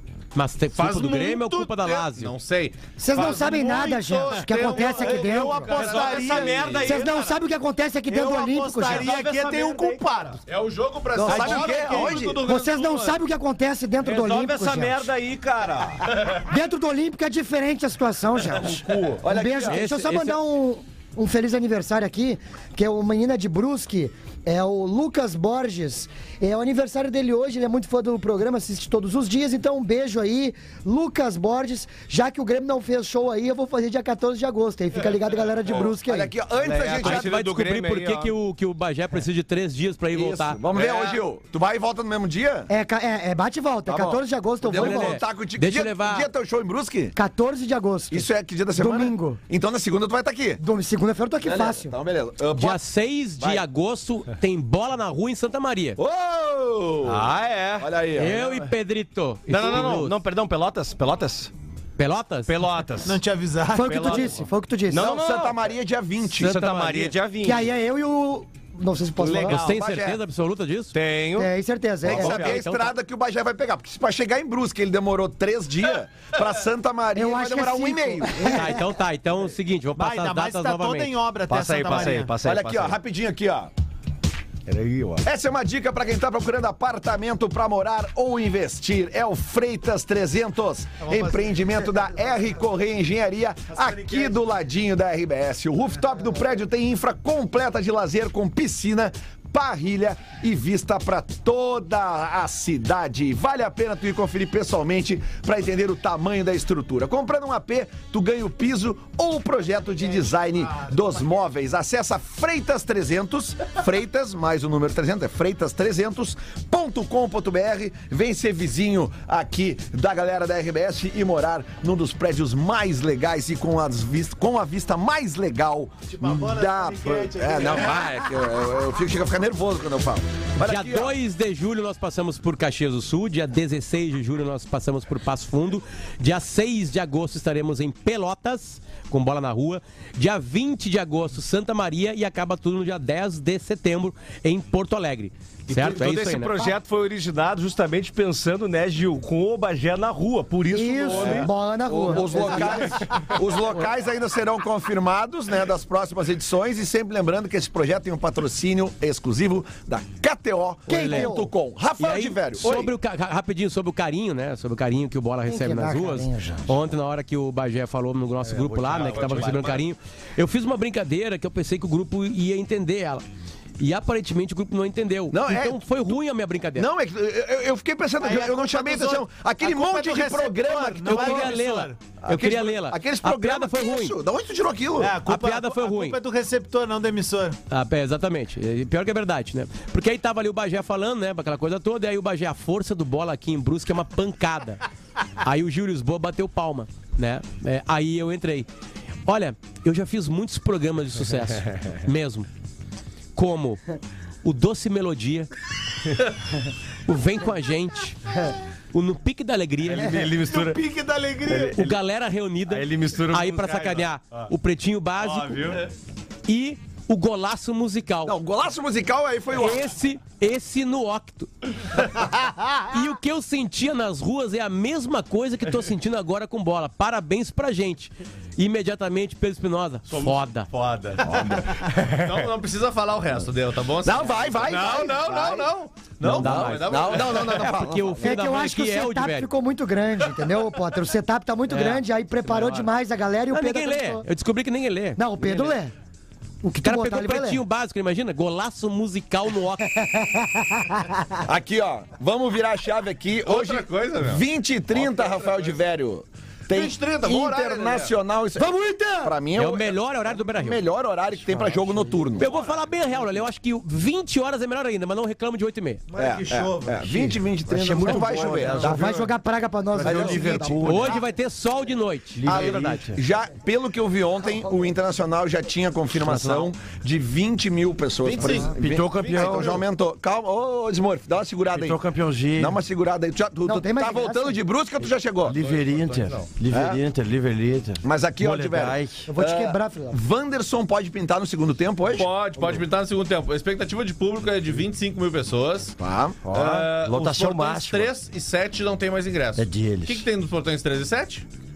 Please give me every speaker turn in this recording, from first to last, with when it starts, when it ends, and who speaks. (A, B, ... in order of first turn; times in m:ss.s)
0:00.3-0:02.3 A
0:00.7-0:06.9 B
0:03.0-0:05.8 C
0:04.6-0:06.9 D
0:05.7-0:07.4 E
0:06.8-0:09.1 C
0:08.1-0:10.4 D
0:08.9-0:10.2 E
0:10.5-0:13.2 B
0:11.2-0:12.4 F
0:11.2-0:12.2 D
0:12.4-0:15.1 C
0:14.0-0:16.1 E
0:16.2-0:36.3 C
0:18.5-0:19.2 E
0:19.2-0:19.8 F
0:19.7-0:20.4 A
0:35.8-0:37.3 F
0:36.6-0:38.3 E
0:37.0-0:40.6 A
0:40.1-0:42.7 F
0:40.7-0:41.2 B
0:42.7-0:45.2 C
0:43.9-0:47.1 F
0:44.7-0:46.3 A
0:47.1-0:49.4 C
0:48.1-0:50.6 F
0:50.6-0:51.9 C
0:51.4-0:52.8 F
0:52.5-0:56.0 A
0:53.4-0:53.6 F
0:56.0-0:58.5 F
0:57.0-0:58.5 E
0:58.2-1:00.2 A
0:59.5-1:01.5 E
1:02.0-1:02.6 A
1:02.5-1:03.2 E
1:03.0-1:04.4 D
1:03.7-1:05.1 C
1:03.8-1:05.6 E
1:04.9-1:06.6 F
1:06.4-1:07.6 E
1:06.4-1:07.1 A
1:07.4-1:09.7 C
1:09.2-1:10.2 F
1:09.3-1:10.9 A
1:10.9-1:11.5 E
1:11.4-1:12.5 C
1:12.0-1:18.7 F
1:12.0-1:12.5 E
1:12.2-1:12.9 A
1:17.1-1:18.8 C
1:18.5-1:21.1 A
1:20.0-1:22.3 D
1:21.5-1:23.0 E
1:22.4-1:23.7 F
1:24.7-1:25.2 E
1:25.2-2:11.2 F
1:31.0-1:31.9 D
1:50.0-1:51.4 D
2:06.1-2:08.1 D
2:10.6-2:26.6 A
2:25.7-2:31.5 E
2:30.7-2:33.0 C
2:31.1-2:42.9 F
2:32.0-2:32.4 E
2:40.9-2:41.5 C
2:40.9-2:41.3 A
2:42.0-2:53.2 A
2:45.5-2:46.7 C
2:48.4-2:49.7 E
2:48.8-2:49.8 B
2:53.8-2:56.9 A
2:55.3-2:56.1 F
2:56.7-3:01.6 F
2:58.2-3:02.0 D
3:01.0-3:04.2 A
3:02.2-3:05.2 F
3:05.0-3:07.6 D
3:05.2-3:06.2 A
3:07.7-3:14.8 A
3:15.4-3:18.7 A
3:19.3-3:22.5 A
3:23.4-3:23.8 A
3:24.4-3:25.5 A
3:27.0-3:28.2 A
3:28.9-3:30.2 A
3:29.8-3:30.8 E
3:30.4-3:31.8 D
3:31.5-3:32.0 E
3:31.7-3:35.8 A
3:32.7-3:34.4 E
3:35.2-3:35.8 E
3:36.5-3:38.4 A
3:38.2-3:39.9 F
3:39.5-3:42.1 A
3:42.8-3:50.7 A
3:50.1-3:52.4 E
3:52.2-3:57.8 B
3:54.0-3:58.4 F
3:56.3-3:59.5 A
3:56.3-3:57.0 E
3:58.2-4:04.2 C
4:01.7-4:02.9 A
4:03.5-4:05.8 A
4:05.2-4:05.9 C
4:06.6-4:07.6 C
4:06.8-4:09.9 A
4:09.9-4:11.4 C
4:11.4-4:22.5 F
4:13.4-4:15.8 B
4:16.7-4:18.1 B
4:18.6-4:19.3 C
4:19.6-4:20.8 A
4:22.4-4:26.0 A
4:26.2-4:26.9 D
4:26.2-4:29.2 F
4:27.6-4:29.2 G
4:27.9-4:29.1 E
4:28.7-4:31.2 C
4:30.0-4:31.0 F
4:30.0-4:31.2 E
4:30.0-4:30.8 G
4:30.8-4:33.0 A
4:32.4-4:33.2 G
4:32.4-4:42.0 F
4:36.2-4:36.7 G
4:38.3-4:39.8 B
4:38.3-4:39.8 G
4:41.7-4:42.8 G
4:42.6-4:45.6 F
4:43.6-4:44.6 C
4:45.4-4:46.5 B
4:45.4-4:49.3 G
4:46.7-4:47.0 F
4:48.0-4:52.3 F
4:49.3-4:50.2 C
4:52.1-4:56.0 B
4:56.0-4:56.4 F
4:56.4-4:58.1 G
4:56.5-5:01.4 B
4:59.6-5:00.2 G